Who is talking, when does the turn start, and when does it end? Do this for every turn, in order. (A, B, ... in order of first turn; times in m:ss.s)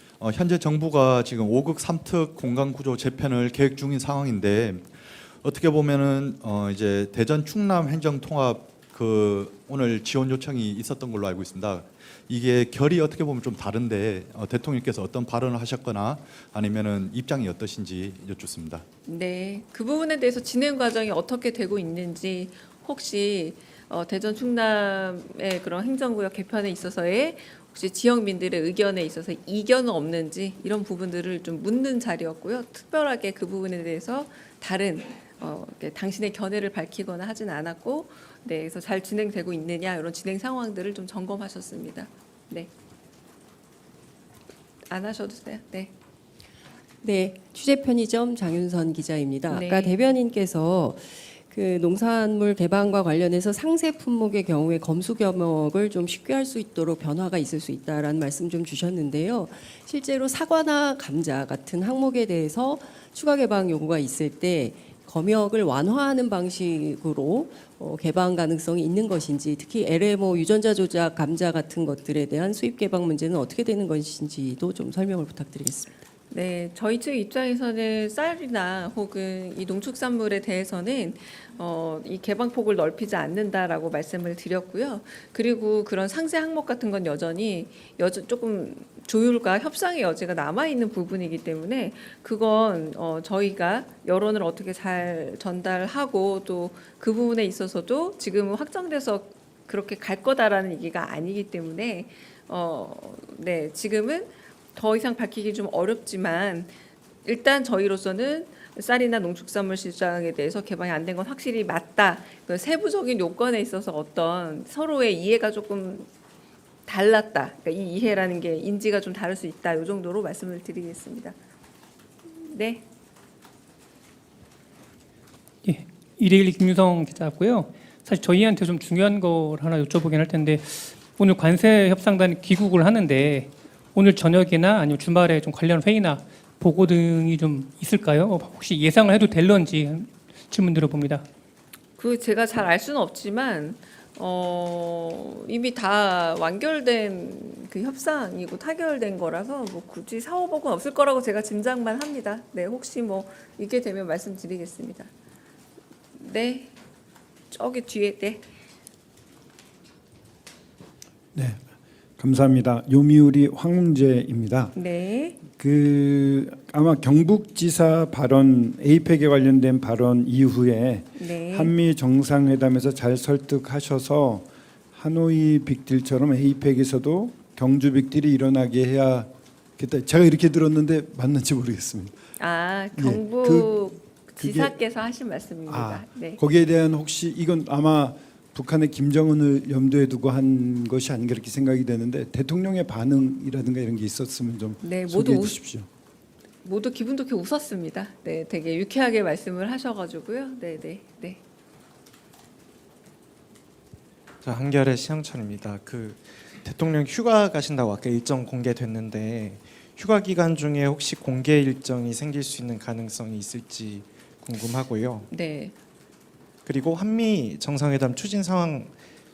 0:00.2-0:18.8 A
0:19.1-0:42.7 B
0:44.9-0:45.9 B
0:47.0-1:15.9 C
0:49.5-0:50.0 B
1:16.3-1:46.7 B
1:47.2-1:56.1 B
1:56.9-2:01.4 B
2:02.4-2:02.8 B
2:05.6-2:21.3 D
2:22.0-2:35.1 B
2:36.2-2:36.8 B
2:37.5-2:38.4 B
2:41.4-2:41.6 E
2:42.2-2:44.8 E
2:44.8-2:45.4 B
2:45.4-3:02.2 E
2:51.2-2:51.8 B
3:02.4-3:06.4 B
3:02.9-3:03.9 E
3:04.4-3:04.8 E
3:05.7-3:15.9 E
3:14.8-3:15.6 B
3:16.6-3:21.4 B
3:24.4-3:35.3 F
3:35.3-3:35.7 B
3:36.7-3:39.0 F